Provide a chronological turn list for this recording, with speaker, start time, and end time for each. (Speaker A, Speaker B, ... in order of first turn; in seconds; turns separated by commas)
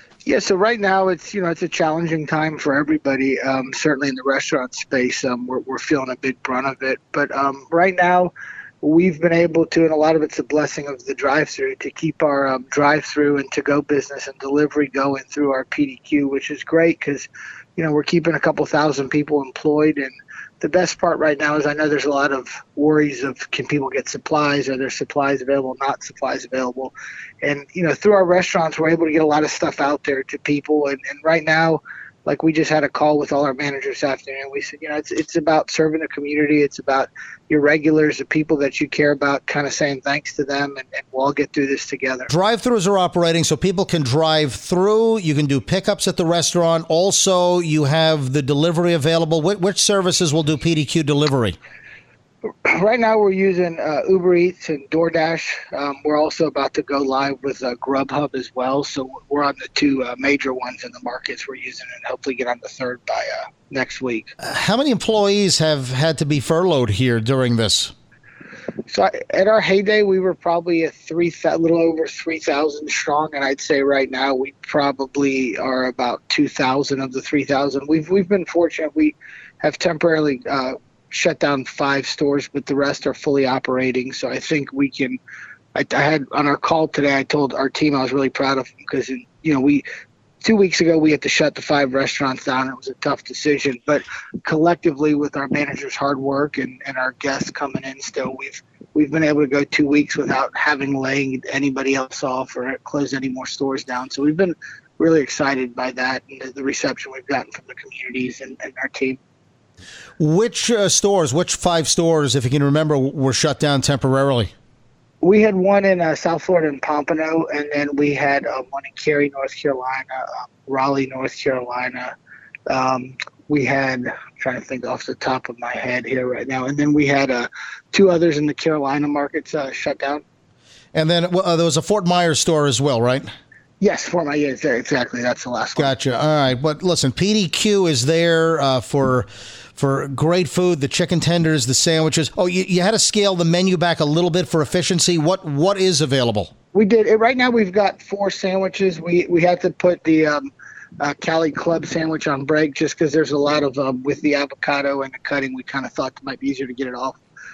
Speaker A: 0.2-42.3, Speaker B: 42.3-51.6, Speaker A: 52.6-64.3, Speaker B: 64.4-67.9, Speaker A: 68.9-85.2, Speaker A: 85.7-89.8, Speaker A: 90.4-109.2, Speaker B: 110.2-114.5, Speaker A: 115.2-122.1, Speaker A: 122.7-130.2, Speaker B: 130.9-133.3, Speaker A: 133.8-135.9, Speaker B: 135.8-146.5, Speaker A: 146.7-157.2